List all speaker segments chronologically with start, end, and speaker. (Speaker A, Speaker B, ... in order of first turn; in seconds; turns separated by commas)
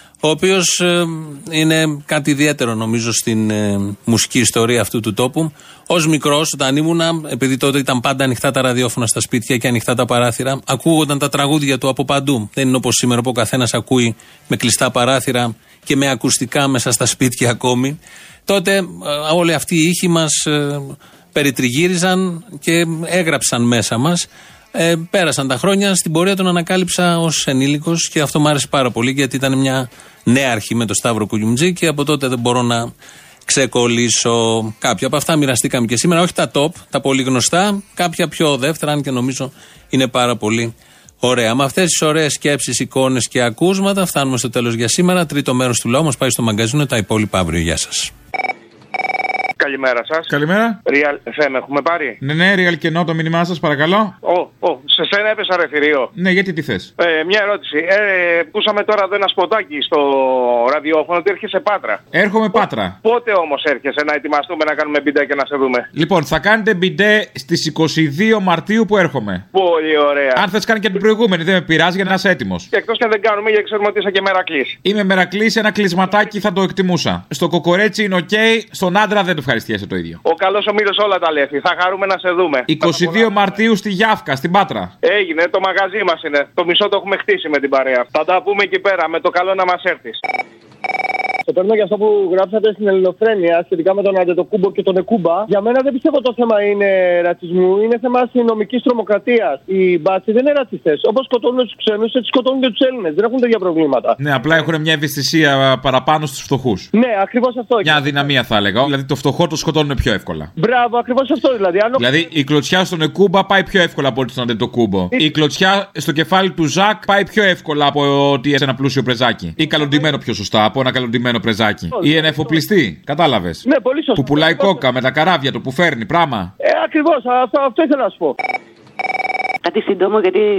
Speaker A: 0.2-32.9, Speaker A: 33.5-48.1, Speaker B: 49.8-50.2, Speaker C: 50.3-50.8, Speaker B: 51.0-52.0, Speaker C: 52.2-54.1, Speaker B: 55.0-56.0, Speaker C: 56.1-56.9, Speaker B: 57.3-57.6, Speaker B: 58.6-59.9, Speaker B: 61.0-62.0, Speaker C: 62.1-63.0, Speaker B: 63.2-65.8, Speaker C: 65.9-69.4, Speaker B: 69.6-70.3, Speaker C: 70.3-72.7, Speaker B: 73.0-74.7, Speaker C: 74.8-80.2, Speaker B: 80.4-83.2, Speaker C: 82.7-84.9, Speaker B: 85.1-88.0, Speaker B: 88.6-89.2, Speaker D: 91.5-104.2, Speaker C: 104.2-106.9, Speaker D: 106.9-108.3, Speaker C: 107.8-110.5, Speaker D: 110.6-112.0, Speaker C: 112.0-123.6, Speaker D: 121.9-122.6, Speaker D: 123.6-124.8, Speaker C: 124.1-126.5, Speaker D: 126.6-128.3